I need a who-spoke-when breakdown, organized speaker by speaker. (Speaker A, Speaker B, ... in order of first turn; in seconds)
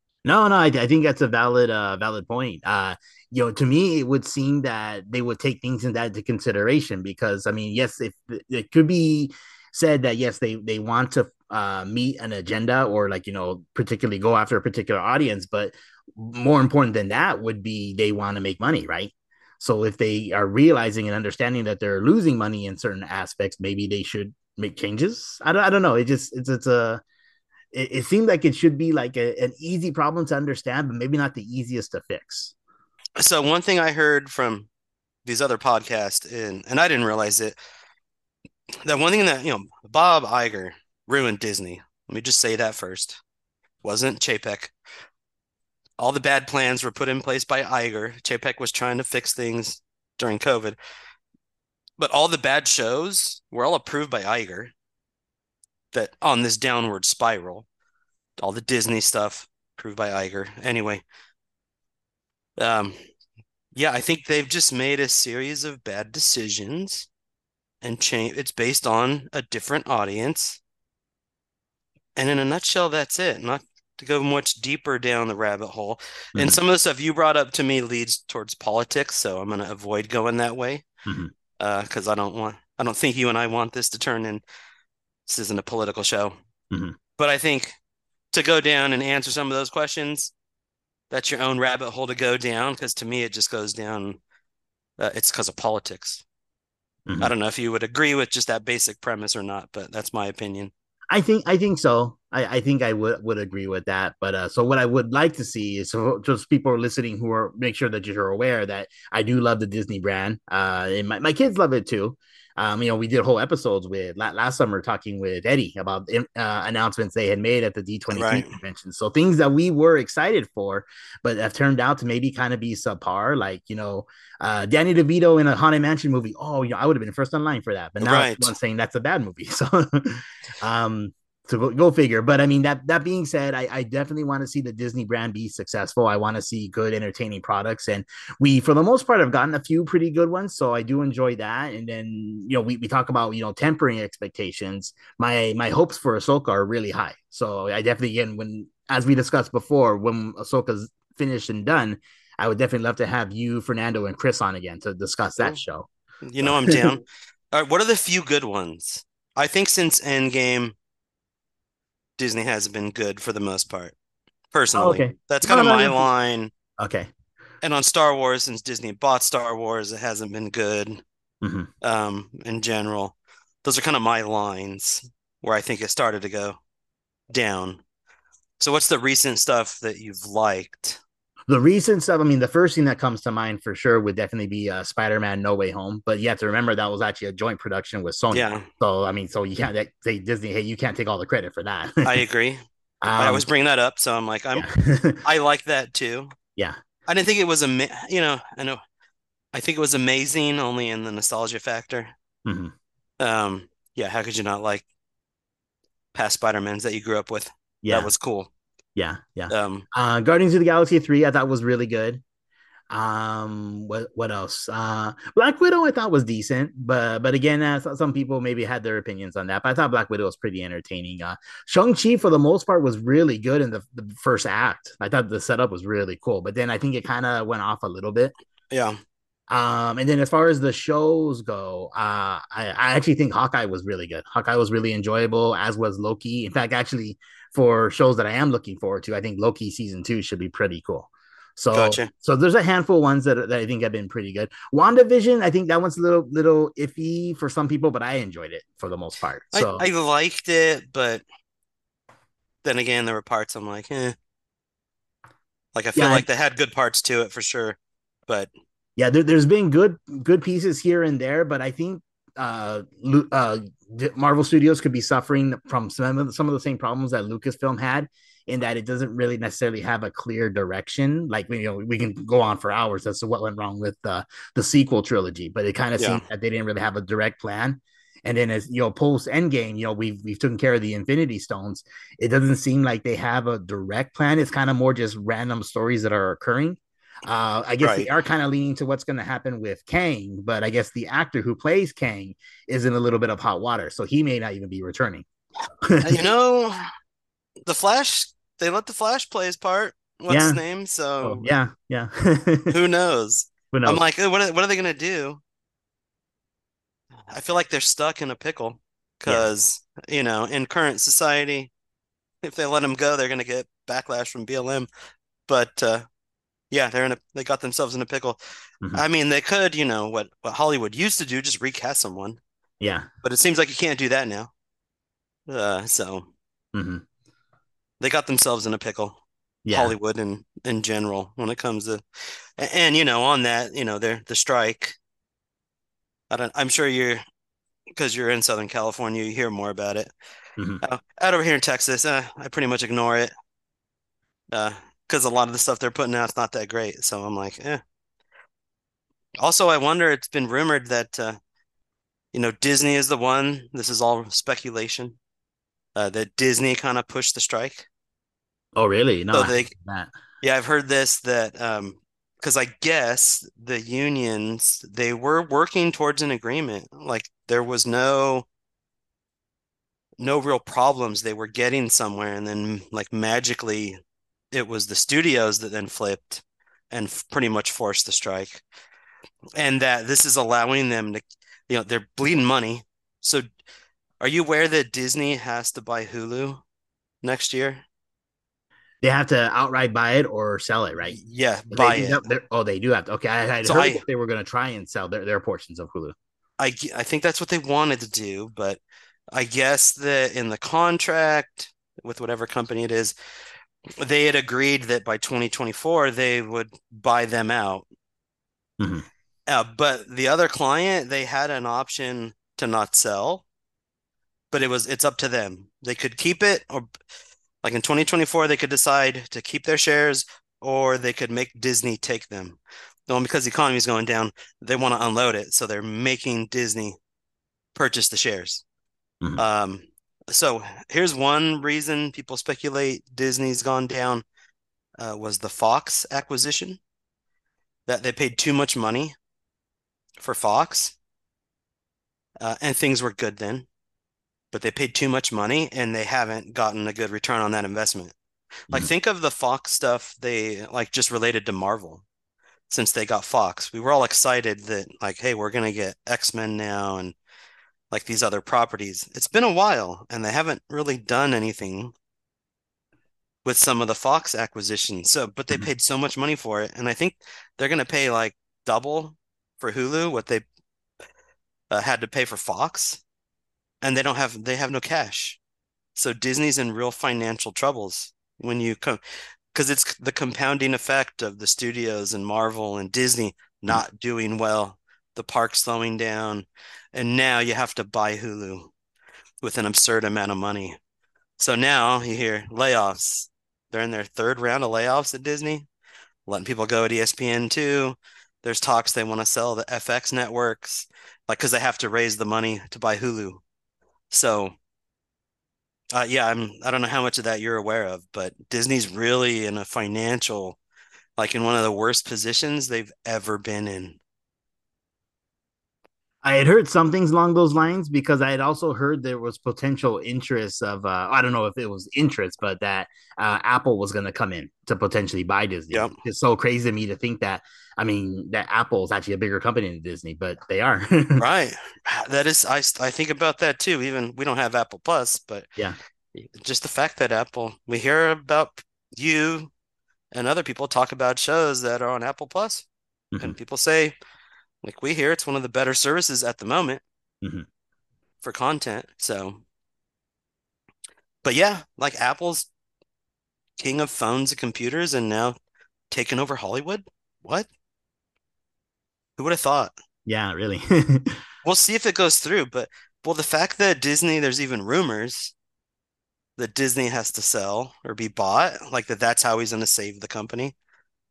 Speaker A: 0.2-27.0, 27.7-32.5, 81.1-81.3, 86.7-87.0, 97.1-97.3, 101.1-155.9, 156.4-156.9, 164.7-166.1, 166.8-167.1, 171.4-171.7, 181.5-192.2, 193.0-193.4, 194.6-195.2, 202.4-202.7, 207.8-208.1, 209.0-212.2, 212.9-228.3, 229.5-249.9, 255.9-256.3, 259.0-296.2, 300.3-300.6, 301.2-302.8, 303.7-304.0, 322.8-323.1, 326.7-327.0, 329.6-329.9, 358.8-360.1, 389.0-391.2, 391.7-396.1, 408.8-409.1, 516.2-531.2, 560.1-561.2
Speaker B: 33.2-34.7, 35.2-37.6, 38.9-43.2, 43.8-44.7, 46.0-50.8, 52.0-54.7, 55.9-57.7, 58.4-61.0, 62.6-63.0, 63.8-67.1, 67.8-70.6, 72.2-80.8, 81.6-84.4, 85.3-86.4, 87.2-87.8, 88.3-90.3, 91.1-94.2, 95.0-96.2, 97.2-100.7, 118.1-118.5, 128.0-128.5, 156.2-160.8, 162.2-163.9, 164.5-166.5, 167.6-171.0, 171.8-176.6, 177.3-177.8, 178.6-181.0, 188.3-188.7, 192.0-192.6, 193.2-194.7, 195.2-196.3, 197.1-198.8, 199.5-202.1, 203.2-204.8, 206.1-208.5, 209.5-209.8, 228.7-229.0, 241.7-242.1, 249.5-251.2, 252.6-254.2, 255.8-257.8, 287.8-288.1, 296.0-296.8, 297.7-301.5, 302.7-305.4, 307.3-311.7, 312.4-314.9, 315.5-316.1, 316.7-318.4, 318.9-322.4, 323.2-324.5, 325.5-326.3, 328.0-329.2, 329.7-335.0, 336.3-337.2, 337.9-340.1, 340.8-343.3, 344.5-347.8, 349.4-351.4, 352.3-355.2, 355.9-357.9, 359.3-359.7, 360.4-368.5, 370.2-374.0, 374.5-378.6, 379.6-383.5, 384.2-386.6, 387.2-387.8, 391.1-392.3, 393.6-394.0, 396.6-398.8, 399.3-403.1, 404.0-407.9, 409.5-413.4, 414.5-416.9, 417.6-427.0, 427.8-428.6, 429.4-434.2, 435.0-436.8, 437.9-439.1, 440.2-441.0, 442.4-443.7, 444.5-448.2, 448.7-452.0, 452.7-457.1, 457.9-461.9, 463.4-470.5, 471.7-473.0, 473.8-475.4, 476.0-479.0, 479.5-488.7, 489.4-490.8, 491.4-495.7, 496.3-503.4, 504.1-504.6, 505.9-510.6, 511.2-514.0, 531.2-535.5, 536.1-539.5, 540.1-542.7, 543.2-544.0, 544.6-546.8, 548.2-549.4, 551.2-552.5, 553.6-555.4, 555.9-557.5, 559.2-559.7, 561.4-565.3, 566.4-570.5